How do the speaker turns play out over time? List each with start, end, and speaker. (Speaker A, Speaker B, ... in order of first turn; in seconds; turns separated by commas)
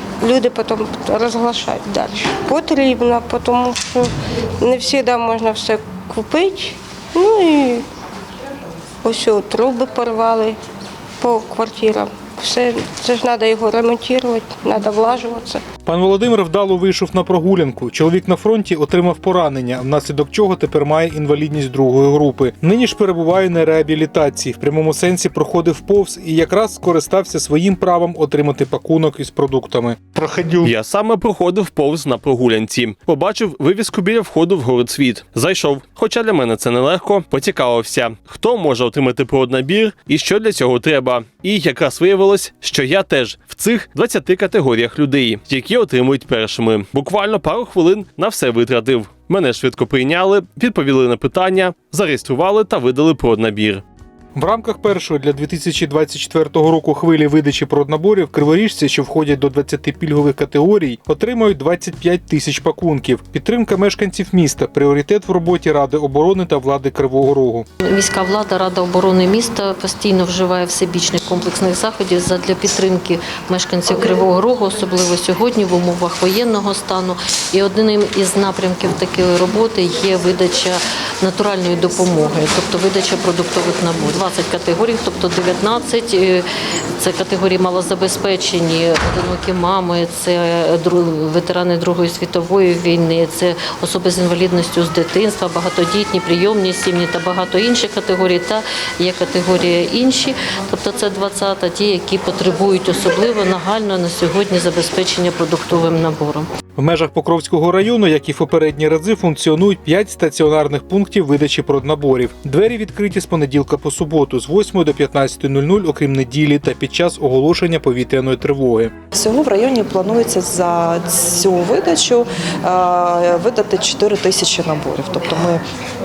Speaker A: 0.2-7.8, Speaker A: 9.0-10.6, Speaker A: 11.2-15.6, Speaker B: 15.8-30.7, Speaker C: 30.6-53.8, Speaker B: 54.4-67.7, Speaker D: 67.8-86.4, Speaker D: 87.0-106.5, Speaker B: 106.8-118.9, Speaker E: 119.1-125.6